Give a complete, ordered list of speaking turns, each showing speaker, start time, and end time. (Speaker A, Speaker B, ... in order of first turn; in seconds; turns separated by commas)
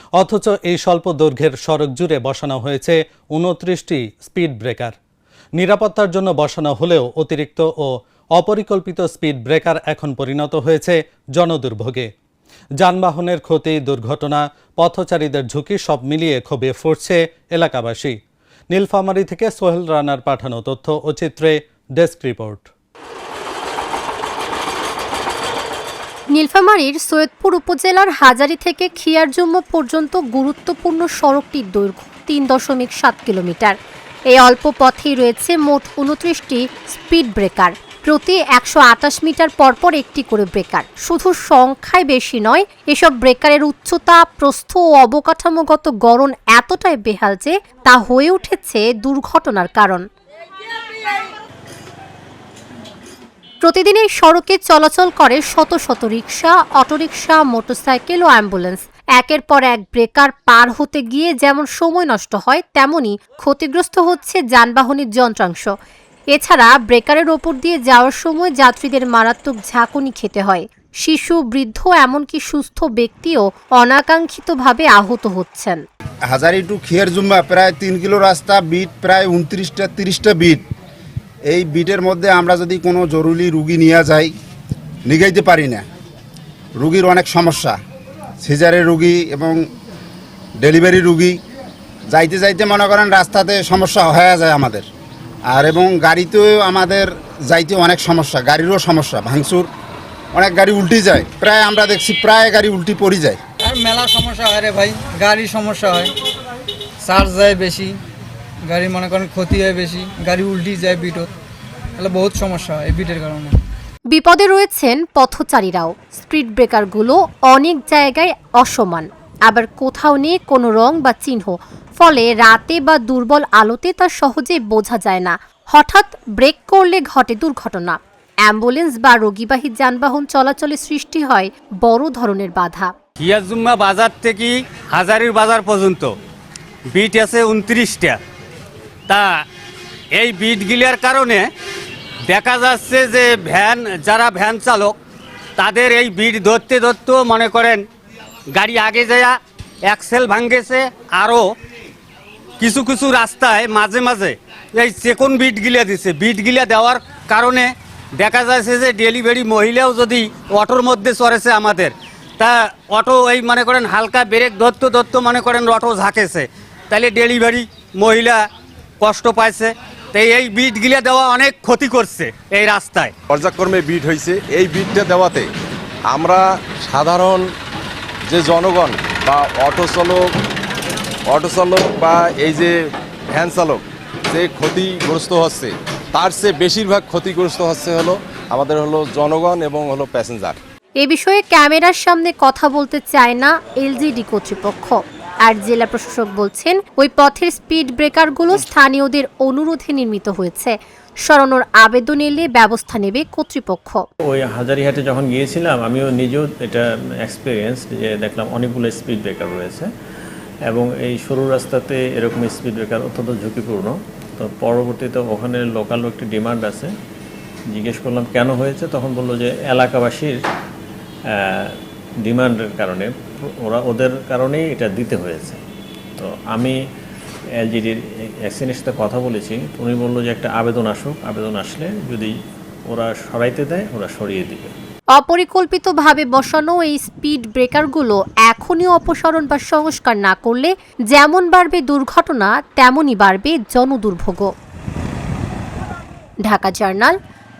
Speaker A: 0.2-5.0, Speaker A: 5.6-12.1, Speaker A: 12.8-18.1, Speaker A: 18.7-22.7, Speaker B: 26.3-33.7, Speaker B: 34.3-50.0, Speaker B: 53.6-65.7, Speaker B: 66.3-75.8, Speaker C: 76.3-80.6, Speaker C: 81.5-84.3, Speaker C: 85.0-85.8, Speaker C: 86.8-87.8, Speaker C: 88.4-89.7, Speaker C: 90.6-91.4, Speaker C: 92.1-94.8, Speaker C: 95.5-99.7, Speaker C: 100.3-103.4, Speaker D: 103.6-106.1, Speaker D: 107.0-108.0, Speaker D: 108.7-111.3, Speaker D: 112.0-113.5, Speaker B: 114.1-132.9, Speaker E: 133.2-136.1, Speaker E: 136.9-138.2, Speaker E: 139.1-139.4, Speaker E: 140.1-141.5, Speaker E: 142.3-144.9, Speaker E: 145.6-147.8, Speaker E: 148.5-151.5, Speaker E: 152.6-168.4, Speaker E: 169.0-173.1, Speaker F: 173.3-175.5, Speaker F: 176.1-177.5, Speaker F: 178.3-180.3, Speaker F: 181.3-182.8, Speaker F: 183.3-190.6, Speaker B: 191.0-204.0, Speaker G: 204.2-209.9, Speaker G: 210.7-216.9, Speaker G: 217.7-220.4, Speaker G: 221.3-225.6, Speaker G: 226.2-226.8, Speaker G: 227.6-232.3, Speaker G: 232.9-234.7, Speaker B: 235.2-244.5, Speaker B: 246.4-247.1